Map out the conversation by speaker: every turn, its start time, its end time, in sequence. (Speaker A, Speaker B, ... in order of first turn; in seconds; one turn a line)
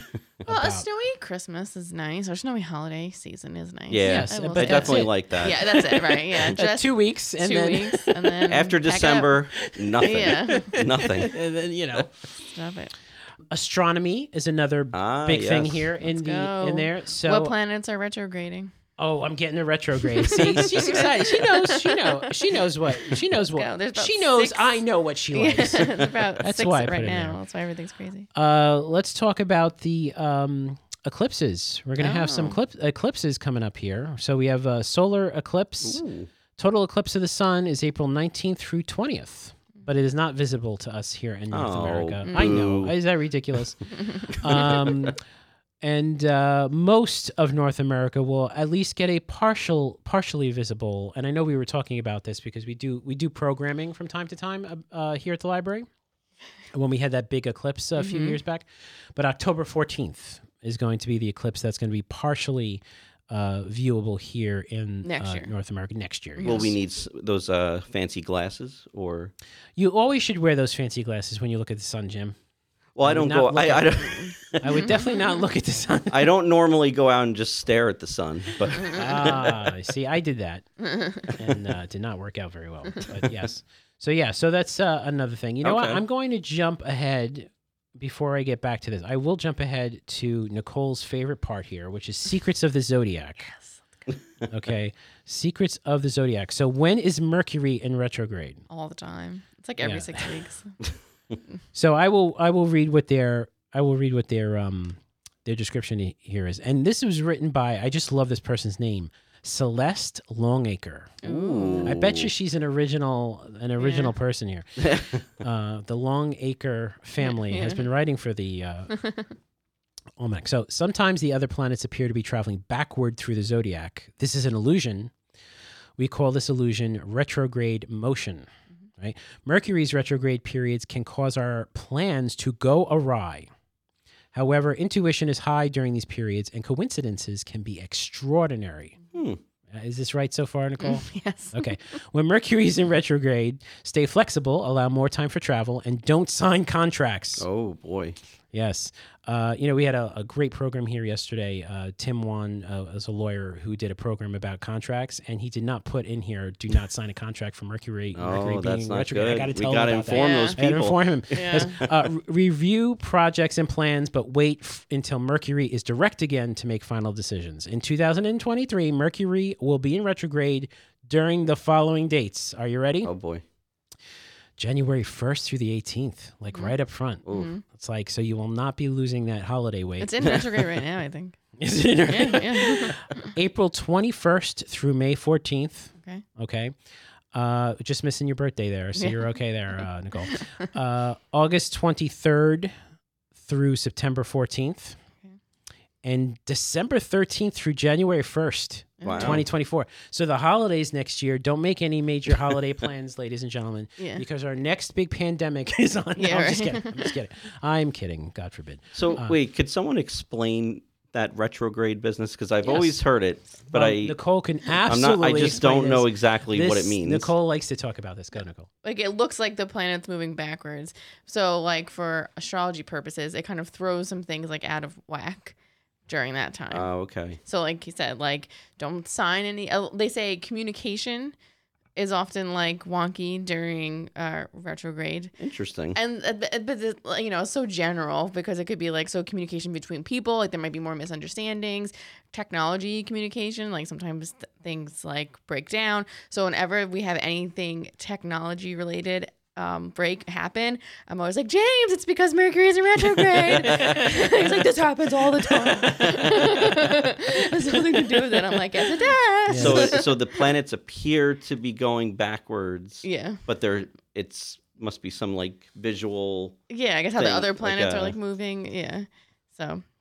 Speaker A: 0.4-0.8
Speaker B: 0.5-9.4
Speaker C: 3.9-5.6
Speaker A: 4.0-8.4
Speaker C: 8.5-11.3
Speaker A: 9.7-12.1
Speaker B: 10.0-10.8
Speaker B: 12.4-12.9
Speaker A: 13.5-17.5
Speaker C: 14.9-15.9
Speaker B: 16.0-18.7
Speaker A: 19.0-27.4
Speaker B: 20.1-28.3
Speaker A: 28.3-36.0
Speaker B: 32.0-32.6
Speaker C: 35.8-36.3
Speaker A: 36.6-45.2
Speaker C: 41.5-42.9
Speaker B: 42.2-42.6
Speaker C: 44.5-45.0
Speaker A: 45.8-55.9
Speaker A: 56.7-66.7
Speaker B: 58.0-58.4
Speaker B: 65.0-65.5
Speaker B: 66.4-66.8
Speaker C: 66.4-69.3
Speaker A: 69.8-72.3
Speaker C: 73.0-74.9
Speaker A: 73.0-74.1
Speaker B: 74.0-75.1
Speaker A: 74.6-76.3
Speaker C: 76.1-79.7
Speaker A: 78.8-93.5
Speaker C: 85.6-86.0
Speaker B: 93.4-94.1
Speaker A: 94.5-98.6
Speaker B: 98.7-100.8
Speaker A: 99.8-100.3
Speaker A: 101.7-111.2
Speaker B: 111.2-112.0
Speaker C: 111.2-112.3
Speaker A: 111.8-114.8
Speaker B: 113.8-114.1
Speaker A: 115.4-119.0
Speaker B: 117.2-117.9
Speaker B: 118.9-119.3
Speaker A: 120.2-125.1
Speaker A: 126.0-128.5
Speaker A: 129.0-133.5
Speaker A: 134.3-139.0
Speaker C: 139.1-139.4
Speaker A: 139.7-147.4
Speaker B: 140.8-141.7
Speaker C: 147.4-148.2
Speaker A: 148.5-173.1
Speaker C: 158.1-161.9
Speaker B: 160.1-160.6
Speaker B: 161.3-161.8
Speaker C: 173.0-173.4
Speaker A: 174.6-180.3
Speaker B: 176.5-177.6
Speaker C: 177.2-177.5
Speaker B: 180.0-181.4
Speaker A: 181.6-186.7
Speaker B: 182.1-183.3
Speaker B: 186.0-186.2
Speaker A: 187.3-192.7
Speaker B: 188.9-190.6
Speaker A: 193.4-195.0
Speaker A: 196.0-209.4
Speaker B: 199.0-199.4
Speaker C: 199.0-199.4
Speaker B: 204.0-204.2
Speaker B: 206.2-207.1
Speaker C: 208.9-214.2
Speaker A: 212.6-212.9
Speaker A: 213.7-218.7
Speaker C: 214.8-217.3
Speaker B: 218.3-225.6
Speaker B: 226.1-226.9
Speaker C: 226.7-227.4
Speaker B: 227.4-231.3
Speaker B: 231.9-235.3
Speaker C: 235.4-236.0
Speaker B: 235.9-260.1
Speaker A: 253.7-254.6
Speaker A: 255.2-256.8
Speaker A: 259.5-260.0
Speaker C: 259.5-266.6
Speaker B: 263.0-263.4
Speaker B: 266.7-269.8
Speaker C: 267.2-268.1